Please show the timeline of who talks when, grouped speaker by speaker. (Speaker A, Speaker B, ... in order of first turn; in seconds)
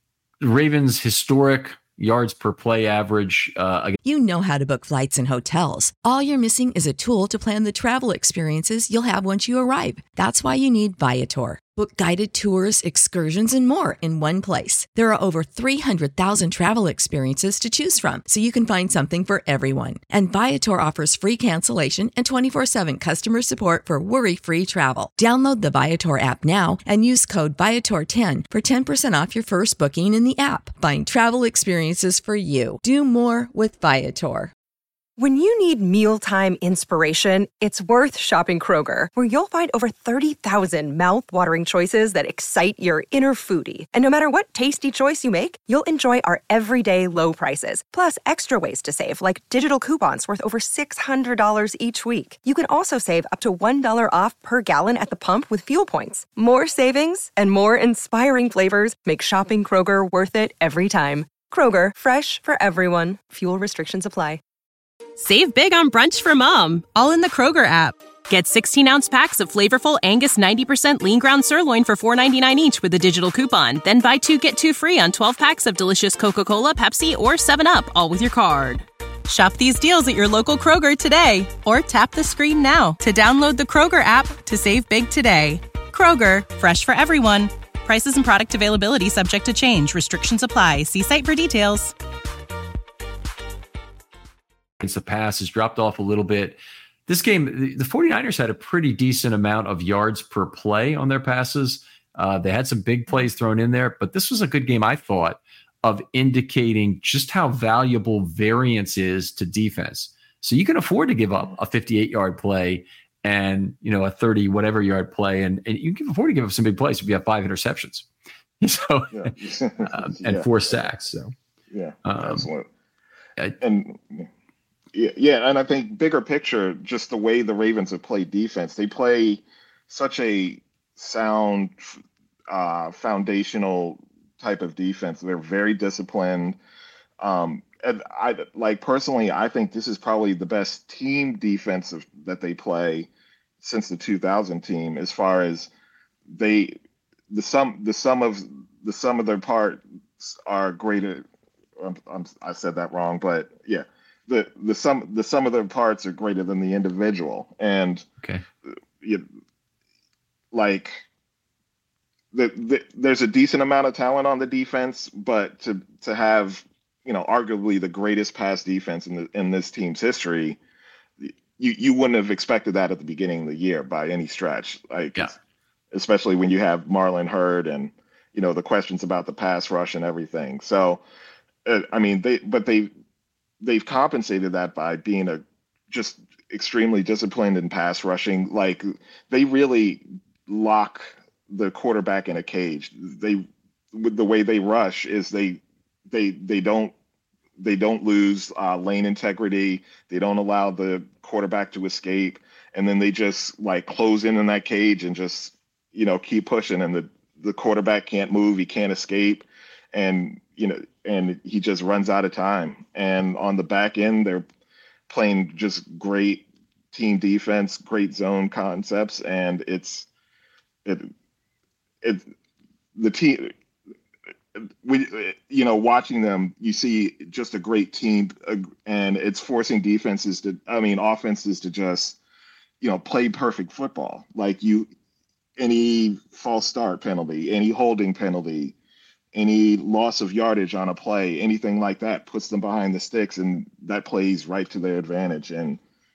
Speaker A: 0.4-4.0, 94.8-118.1, 118.6-119.3, 119.8-121.3, 122.0-122.5
Speaker B: 4.0-34.5
Speaker C: 35.2-64.4
Speaker D: 65.2-91.9
Speaker E: 119.1-120.5, 121.7-122.7, 123.6-124.3, 124.9-136.6, 137.2-143.1, 143.6-145.7, 146.3-146.7, 147.3-151.2, 151.8-158.1, 158.7-159.2, 160.5-161.0, 162.3-170.6, 171.2-175.3, 175.9-181.0, 181.6-182.9, 183.6-196.9, 197.6-214.4, 215.1-220.1, 220.8-221.1, 222.0-222.3, 222.9-223.5, 224.5-232.2, 232.8-234.9, 235.6-238.7, 239.3-245.8